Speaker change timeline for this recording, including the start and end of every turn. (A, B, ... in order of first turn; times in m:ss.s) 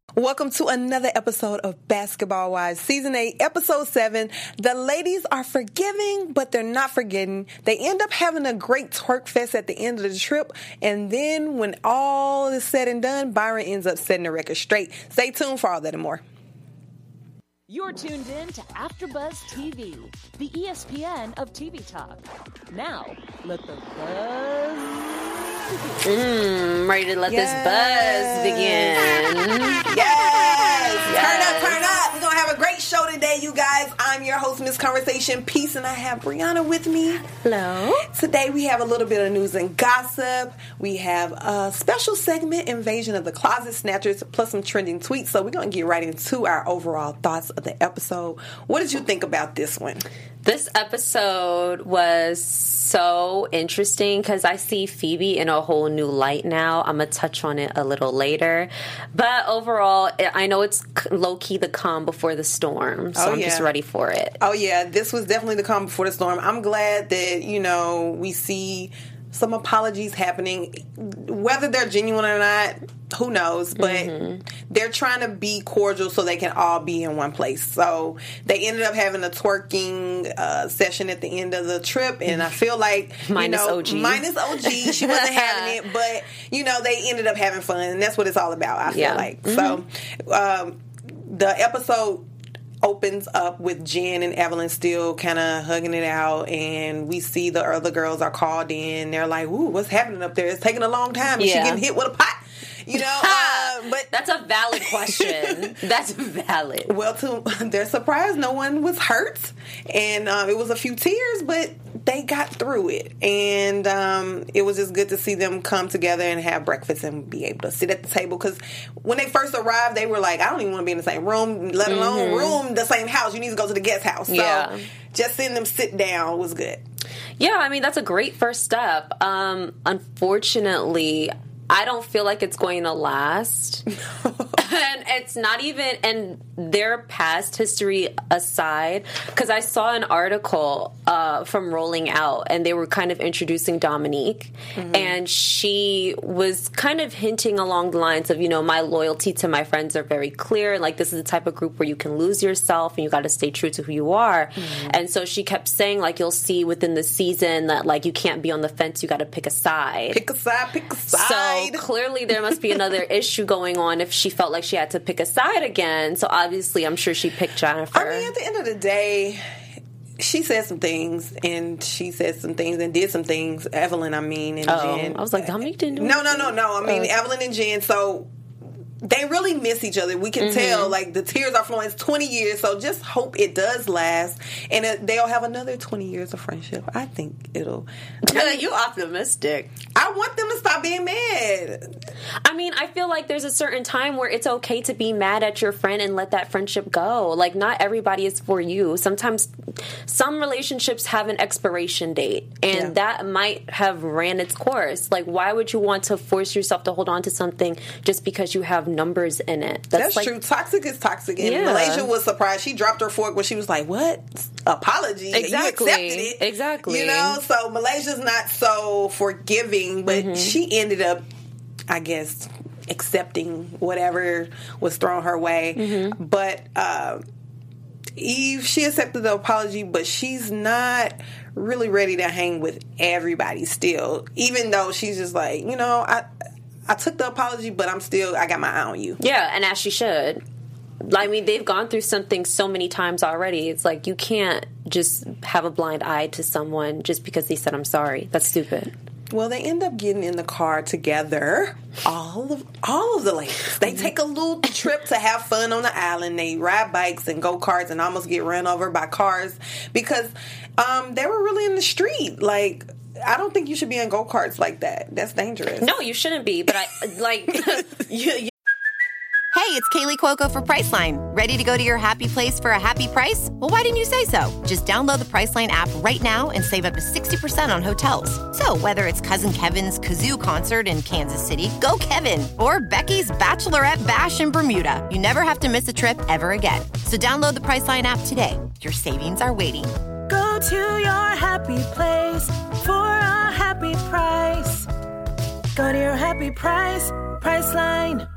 0:00.2-0:16.2 A
0:17.7-0:25.6 B
0:26.0-0:29.8 C
0:27.3-0:29.2 A
0:29.8-0:37.3 A
0:31.0-0:31.8 C
0:37.4-0:38.0 C
0:38.0-0:50.0 A
0:50.4-1:04.4 C
1:03.2-1:03.7 A
1:04.4-1:32.3 A
1:13.8-1:14.4 C
1:23.2-1:25.8 C
1:28.9-1:29.8 C
1:32.8-1:44.1 A
1:41.4-1:41.8 C
1:42.9-1:46.9 C
1:44.8-1:45.7 A
1:46.8-2:06.8 A
2:01.8-2:02.6 C
2:04.3-2:04.8 C
2:07.4-2:13.8 C
2:14.2-2:14.5 A
2:14.6-2:40.2 C
2:24.7-2:25.1 A
2:34.6-2:34.9 A
2:40.1-2:41.8 A
2:41.1-2:48.3 C
2:47.9-2:49.4 A
2:50.2-2:58.3 A
2:54.6-2:57.1 C
2:59.0-3:08.6 A
3:00.4-3:00.9 C
3:08.2-3:09.7 C
3:09.9-3:11.9 A
3:12.4-3:19.5 C
3:20.0-3:30.3 C
3:29.9-3:41.2 A
3:31.4-3:32.1 C
3:35.3-3:37.4 C
3:40.1-3:40.6 C
3:41.9-3:47.2 A
3:45.7-3:46.2 C
3:48.2-3:56.3 A
3:56.8-3:59.2 A
3:59.2-4:00.4 C
4:01.0-4:08.9 C
4:09.3-4:25.9 A
4:25.8-4:28.5 C
4:29.5-4:50.0 D
4:50.3-4:54.9 E
4:55.7-4:58.3 E